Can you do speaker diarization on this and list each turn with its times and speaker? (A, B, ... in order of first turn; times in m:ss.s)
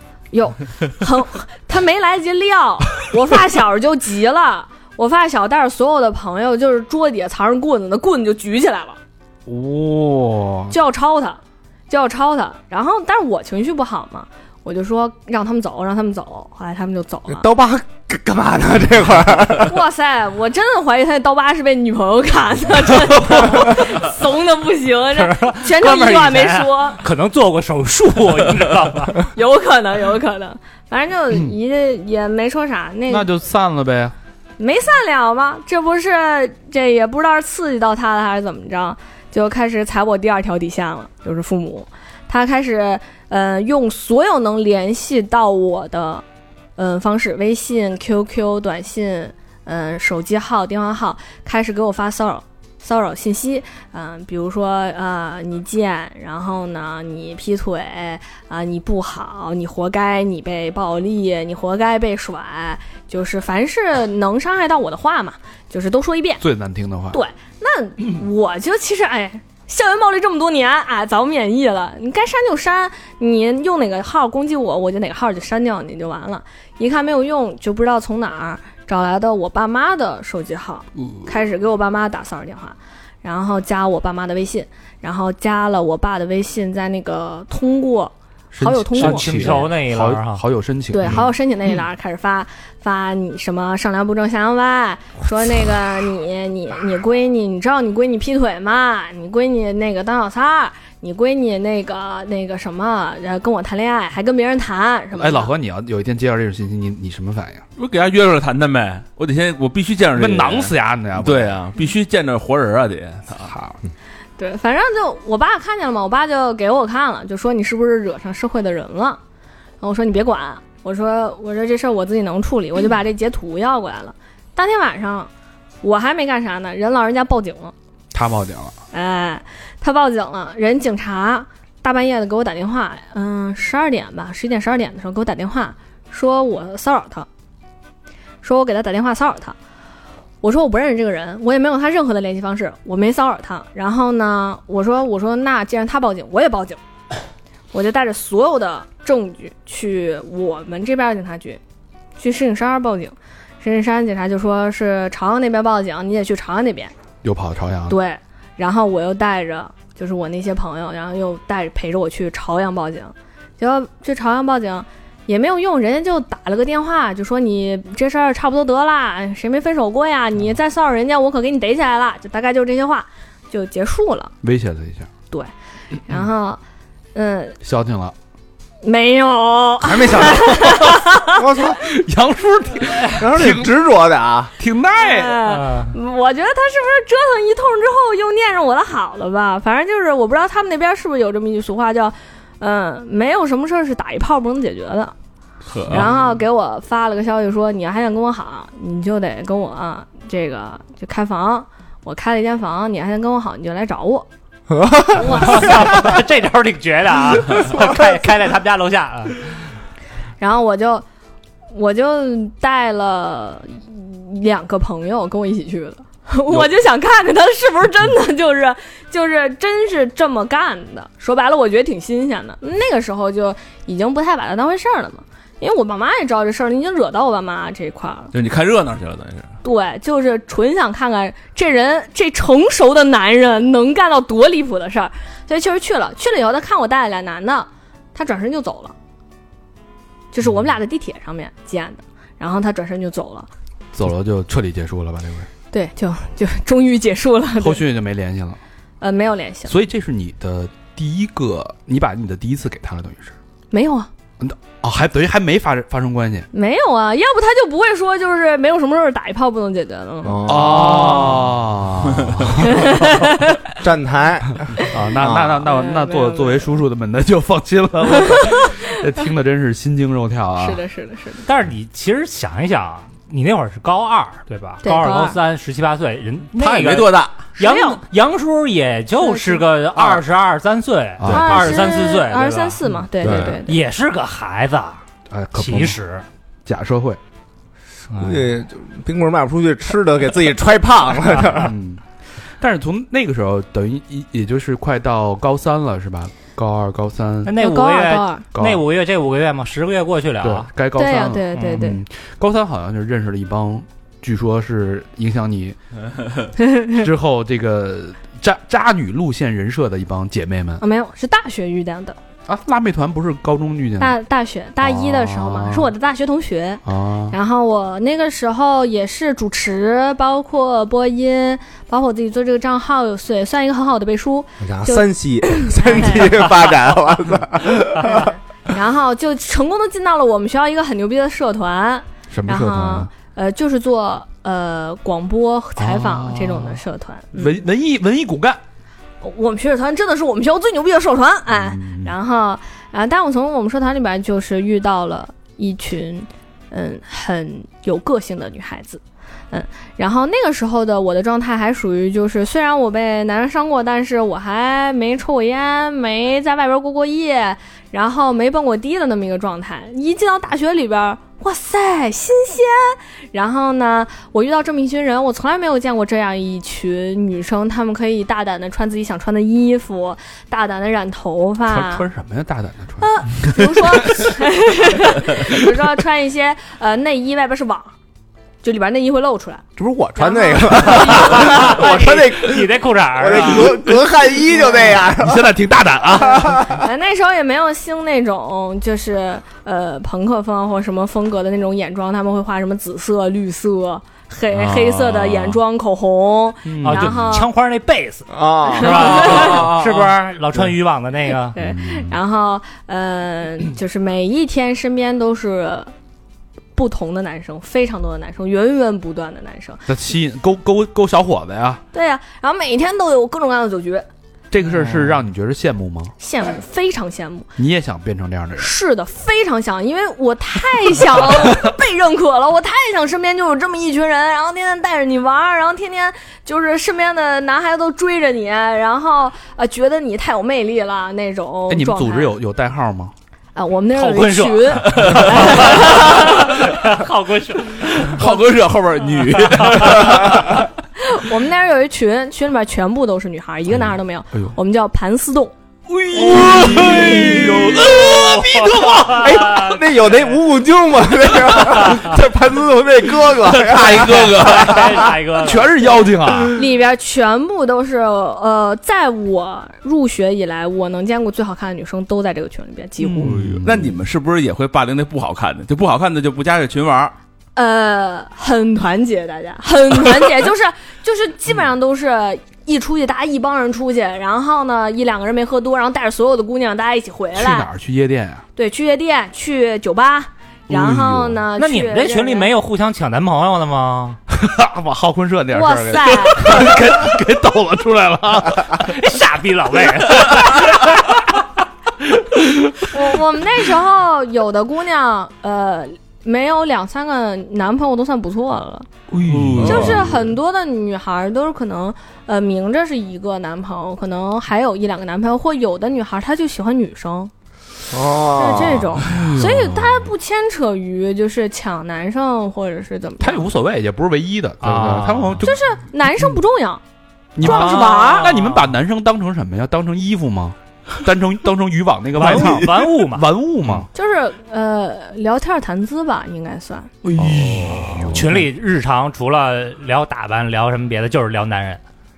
0:00.3-0:09.0 A
0:09.5-0:10.8 B
0:10.7-0:17.5 A
0:17.3-0:19.8 C
0:19.6-0:27.0 A
0:25.1-0:29.2 D
0:29.3-0:33.2 A
0:33.1-0:34.1 B
0:34.6-0:46.2 A
0:46.8-1:06.4 A
1:06.4-1:07.2 B
1:07.1-1:29.6 A
1:28.5-1:31.2 B
1:29.0-1:30.4 D
1:30.9-1:45.5 A
1:45.1-1:47.6 B
1:47.8-1:53.5 E
1:50.1-1:51.6 B
1:53.4-1:53.8 B
1:54.4-1:59.2 A
1:59.8-2:05.3 A
2:05.8-2:07.7 A
2:08.1-2:08.7 B
2:08.9-2:17.3 A
2:18.4-2:19.6 A
2:20.4-2:26.8 A
2:27.7-2:31.6 A
2:32.2-2:36.9 A
2:37.2-2:38.0 B
2:37.9-2:54.3 A
2:54.4-2:55.1 B
2:56.0-2:56.6 A
2:57.1-2:57.6 A
2:57.6-2:58.1 B
2:58.8-3:01.4 A
2:59.8-3:01.8 C
3:01.8-3:03.7 B
3:03.1-3:04.5 C
3:04.6-3:05.4 B
3:05.0-3:15.1 A
3:05.5-3:05.9 D
3:15.7-3:16.1 E
3:15.9-3:24.3 A
3:24.7-3:25.7 C
3:25.1-3:26.0 A
3:25.3-3:29.5 D
3:30.4-3:31.0 A
3:31.7-3:48.3 A
3:48.3-3:49.5 E
3:49.6-3:58.9 A
4:00.3-4:03.5 A
4:03.9-4:05.5 B
4:05.7-4:07.8 A
4:07.6-4:08.6 B
4:09.0-4:09.7 A
4:09.7-4:13.4 B
4:13.7-4:14.1 A
4:14.4-4:16.5 B
4:16.5-4:21.3 A
4:20.2-4:21.3 C
4:20.4-4:22.9 B
4:22.6-4:23.7 A
4:23.8-4:25.6 C
4:24.8-4:30.8 B
4:25.6-4:26.7 A
4:28.5-4:28.7 A
4:30.6-4:31.4 A
4:31.4-4:45.0 D
4:34.8-4:35.4 A
4:36.6-4:37.3 E
4:37.6-4:38.0 A
4:39.2-4:39.6 A
4:41.2-4:41.7 B
4:41.3-4:43.8 A
4:43.2-4:43.6 E
4:45.3-4:46.0 B
4:45.5-4:46.2 D
4:46.6-4:47.2 B
4:48.1-4:48.4 D
4:48.1-4:51.7 C
4:51.5-4:52.0 B
4:52.6-4:57.6 B
4:57.4-5:00.7 D
4:57.6-4:58.4 A
4:58.5-4:58.8 B
5:00.4-5:05.8 B
5:01.0-5:02.0 A
5:01.6-5:01.8 D
5:06.6-5:07.0 A
5:06.9-5:10.8 B
5:10.8-5:12.2 A
5:12.4-5:14.2 B
5:14.0-5:26.5 A
5:14.8-5:15.9 B
5:16.8-5:17.4 B
5:24.6-5:28.3 C
5:28.0-5:37.5 A
5:32.3-5:33.1 B
5:35.8-5:36.8 B
5:37.3-5:38.6 B
5:39.2-6:12.1 A
5:41.5-5:42.1 B
6:11.6-6:14.3 B
6:13.0-6:17.9 A
6:18.6-6:19.6 A
6:19.8-6:25.5 C
6:20.2-6:22.1 A
6:20.9-6:23.8 D
6:25.2-6:26.8 B
6:26.6-6:37.5 A
6:34.5-6:35.6 E
6:36.6-6:37.3 B
6:36.8-6:41.6 D
6:38.3-6:40.1 C
6:38.8-6:39.7 A
6:41.5-6:45.9 A
6:41.6-6:42.1 B
6:46.8-6:49.8 A
6:49.9-6:51.8 B
6:51.9-6:54.1 A
6:54.5-6:56.1 B
6:56.2-6:57.5 A
6:57.6-6:58.7 B
6:58.6-7:12.4 A
7:11.7-7:13.1 B
7:13.5-7:16.6 A
7:13.9-7:18.1 D
7:14.9-7:15.5 E
7:18.0-7:20.7 E
7:21.0-7:25.5 A
7:23.8-7:24.5 B
7:26.0-7:29.2 E
7:26.1-7:28.0 B
7:26.3-7:35.1 C
7:28.5-7:30.1 D
7:33.5-7:34.8 E
7:34.4-7:35.9 D
7:35.4-7:36.6 B
7:36.5-7:43.4 A
7:43.0-7:44.0 B
7:43.2-7:47.1 E
7:47.6-7:57.7 A
7:57.3-7:58.4 B
7:58.6-8:02.5 A
8:00.7-8:01.4 B
8:01.6-8:04.2 D
8:04.3-8:09.0 B
8:05.5-8:06.8 A
8:08.8-8:10.9 D
8:12.8-8:18.9 A
8:19.1-8:20.1 B
8:19.2-8:20.2 E
8:19.6-8:27.3 A
8:27.9-8:28.9 C
8:28.4-8:33.5 A
8:29.1-8:29.8 B
8:33.2-8:35.6 B
8:34.6-8:35.4 D
8:35.4-8:36.8 A
8:37.4-8:43.9 B
8:37.4-8:38.3 A
8:37.4-8:38.6 D
8:42.1-8:43.3 D
8:43.9-8:46.9 A
8:47.0-8:48.4 B
8:47.2-8:48.1 E
8:48.1-8:51.8 D